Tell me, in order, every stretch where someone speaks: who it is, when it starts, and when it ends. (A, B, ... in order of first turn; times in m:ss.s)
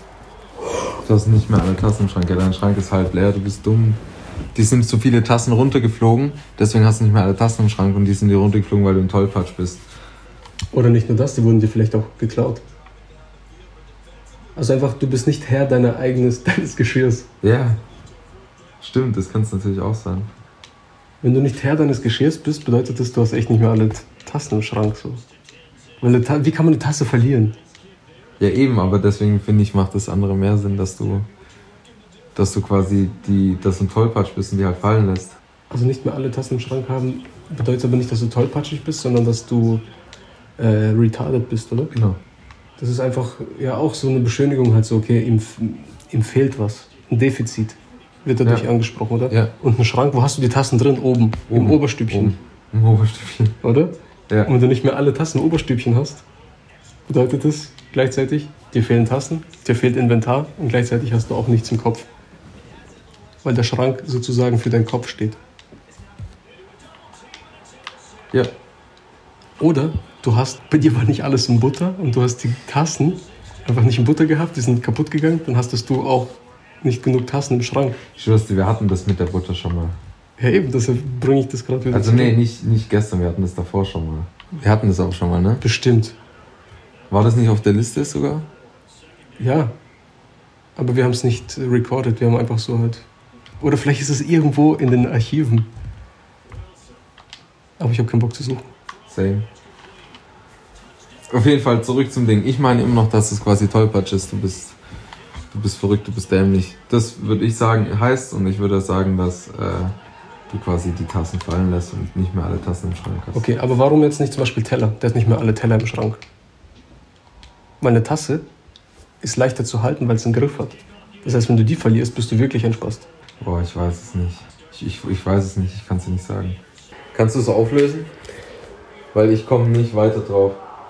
0:01.0-0:04.0 A
0:04.5-0:09.8 A
0:10.7-0:12.6 B
0:14.6-0:17.3 B
0:17.4-0:17.8 A
0:18.8-0:20.3 A
0:21.2-0:25.2 B
0:26.0-0:27.6 B
0:28.4-0:31.3 A
0:32.3-0:35.4 A
0:35.7-0:39.8 B
0:40.6-0:41.9 B
0:41.9-0:42.2 A
0:42.8-0:52.4 B
0:51.5-0:53.6 A
0:53.6-0:53.9 B
0:54.5-0:56.2 B
0:57.1-1:02.1 B
1:03.4-1:05.4 B
1:09.6-1:18.0 B
1:18.2-1:20.0 A
1:20.4-1:22.4 B
1:21.9-1:25.6 A
1:25.6-1:26.2 B
1:27.1-1:28.5 A
1:29.4-1:29.7 B
1:30.8-1:33.0 B
1:33.6-1:35.7 B
1:37.8-1:38.7 B
1:39.1-1:39.4 A
1:41.3-1:44.8 A
1:45.5-1:49.9 A
1:50.5-1:53.4 A
1:53.3-1:56.2 B
1:57.8-1:58.4 B
1:59.2-2:03.1 B
2:03.4-2:06.6 A
2:07.1-2:08.1 A
2:09.1-2:10.6 A